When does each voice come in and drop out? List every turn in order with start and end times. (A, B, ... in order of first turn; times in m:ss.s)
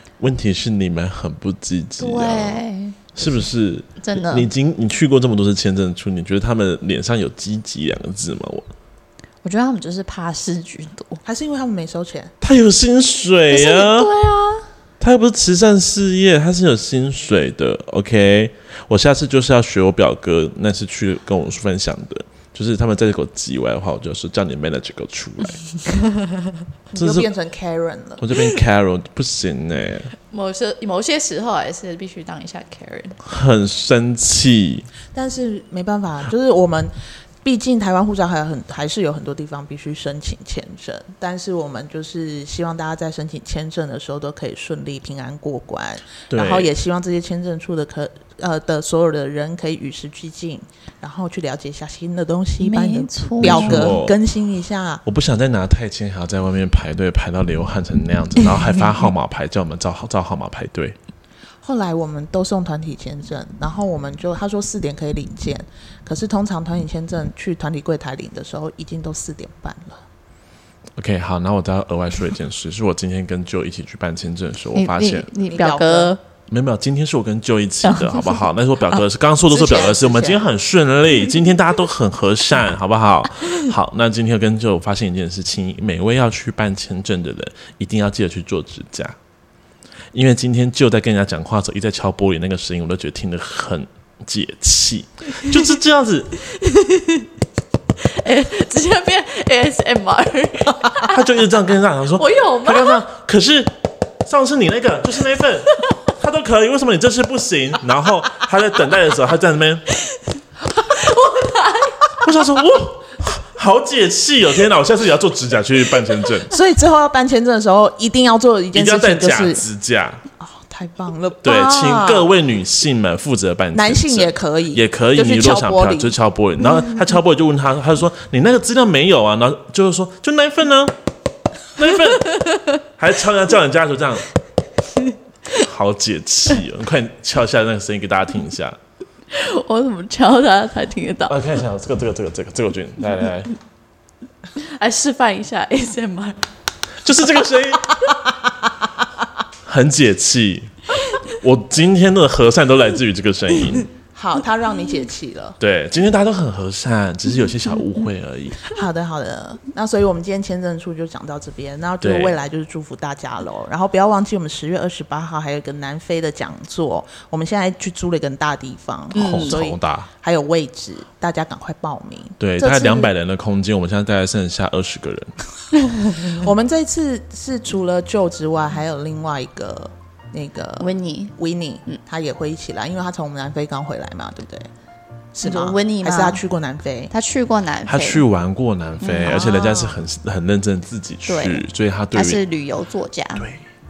0:00.2-0:02.6 A
0:02.0-0:03.0 B
0:03.2-0:08.7 A
0:04.0-0:04.5 B
0:09.4-0:11.2 B
0:11.2-0:12.3 C
0:12.4-0:14.1 A
0:13.5-0:14.7 B
0:15.0-0:25.6 A
0:26.9-0:28.2 C
0:27.0-0:27.3 A
0:28.2-0:30.1 A
0:30.3-0:33.2 B
0:33.2-0:34.9 A
0:35.1-0:55.0 C
0:46.3-0:46.7 A
0:52.6-0:53.9 B
0:53.4-0:54.2 A
0:55.1-1:01.0 A
1:01.6-1:10.0 C
1:11.0-1:15.3 A
1:14.8-1:16.2 B
1:15.5-1:16.2 C
1:16.5-1:29.2 A
1:17.8-1:19.0 B
1:19.5-1:20.4 C
1:30.1-1:36.3 A
1:36.5-1:37.3 B
1:38.0-1:41.2 B
1:41.0-1:49.8 A
1:42.2-1:43.0 B
1:50.8-1:52.1 B
1:52.2-1:56.5 A
1:56.5-1:59.6 C
1:58.7-2:00.2 A
2:00.4-2:02.3 C
2:01.4-2:11.0 A
2:03.7-2:06.2 C
2:11.8-2:14.3 A
2:12.3-2:12.8 B
2:15.5-2:18.8 A
2:19.3-2:21.4 B
2:21.3-2:23.5 A
2:24.6-2:26.4 B
2:27.0-2:28.1 A
2:29.6-2:30.7 A
2:31.3-2:33.9 A
2:34.2-2:35.6 C
2:35.6-2:38.6 A
2:38.7-2:53.1 C
2:42.0-2:42.4 A
2:49.1-2:50.1 A
2:49.1-2:49.6 B
2:52.4-2:55.4 A
2:56.2-3:04.7 C
3:00.8-3:01.3 B
3:05.4-3:07.1 C
3:05.4-3:06.4 B
3:07.1-3:08.2 B
3:07.9-3:12.4 A
3:09.0-3:09.4 B
3:09.2-3:10.0 C
3:11.3-3:13.5 B